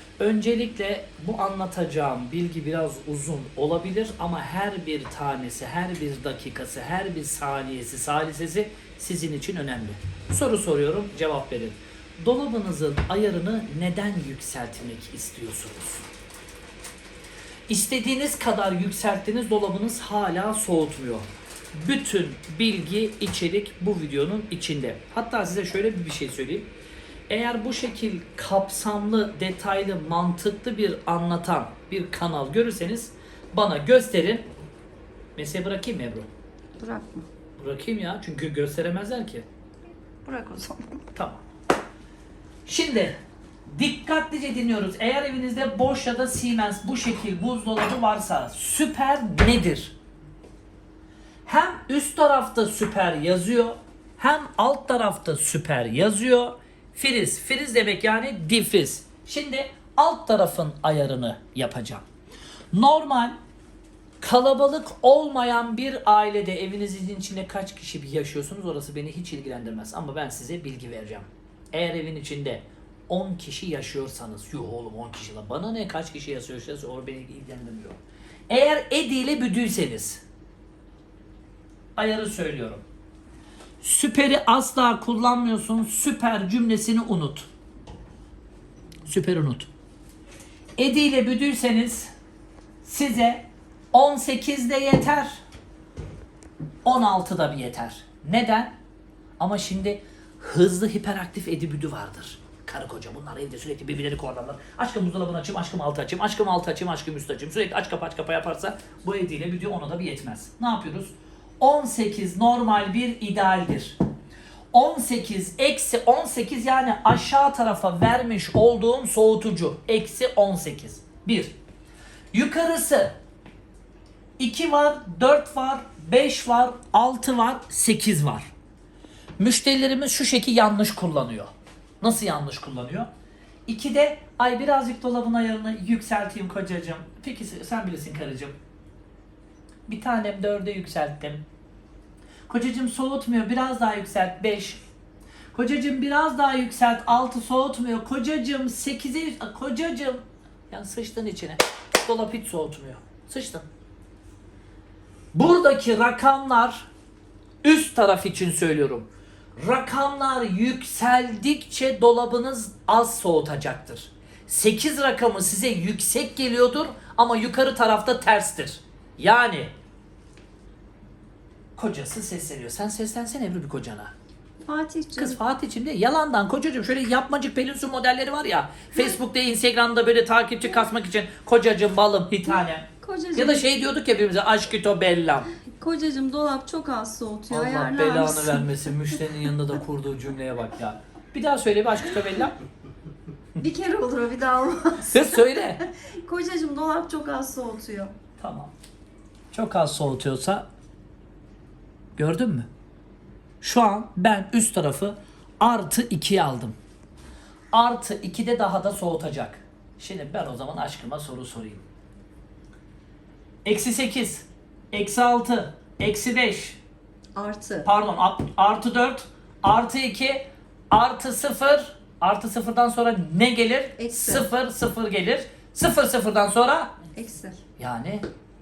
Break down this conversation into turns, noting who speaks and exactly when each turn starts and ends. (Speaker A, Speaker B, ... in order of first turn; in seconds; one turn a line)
Speaker A: 0.2-16.1
Speaker A: 17.7-26.7
Speaker A: 27.3-34.5
Speaker A: 35.4-36.3
Speaker B: 36.8-37.3
Speaker A: 37.6-39.5
Speaker B: 40.2-40.8
Speaker A: 41.1-41.4
Speaker A: 42.7-43.2
Speaker A: 43.7-50.0
Speaker A: 51.5-62.0
Speaker A: 62.7-63.4
Speaker A: 64.2-80.2
Speaker A: 82.0-82.8
Speaker A: 83.8-87.5
Speaker A: 89.1-89.7
Speaker A: 90.8-92.1
Speaker A: 92.8-95.4
Speaker A: 96.8-98.8
Speaker A: 99.4-114.0
Speaker A: 114.7-121.5
Speaker A: 122.3-123.2
Speaker A: 124.4-128.5
Speaker A: 129.4-131.5
Speaker A: 132.0-133.1
Speaker A: 133.7-138.6
Speaker A: 139.9-141.4
Speaker A: 142.5-144.8
Speaker A: 145.5-153.7
Speaker A: 155.3-156.9
Speaker A: 157.6-169.7
Speaker A: 171.8-174.1
Speaker B: 174.6-175.4
Speaker A: 175.2-185.5
Speaker B: 183.0-183.7
Speaker B: 185.7-188.9
Speaker A: 187.5-192.6
Speaker B: 193.6-198.1
Speaker A: 195.0-195.8
Speaker A: 198.4-198.7
Speaker A: 199.5-200.7
Speaker A: 202.2-202.7
Speaker A: 203.6-206.8
Speaker A: 207.7-211.8
Speaker A: 213.7-216.8
Speaker B: 217.3-217.9
Speaker A: 217.8-226.9
Speaker B: 224.0-224.5
Speaker B: 227.2-227.6
Speaker A: 227.8-228.2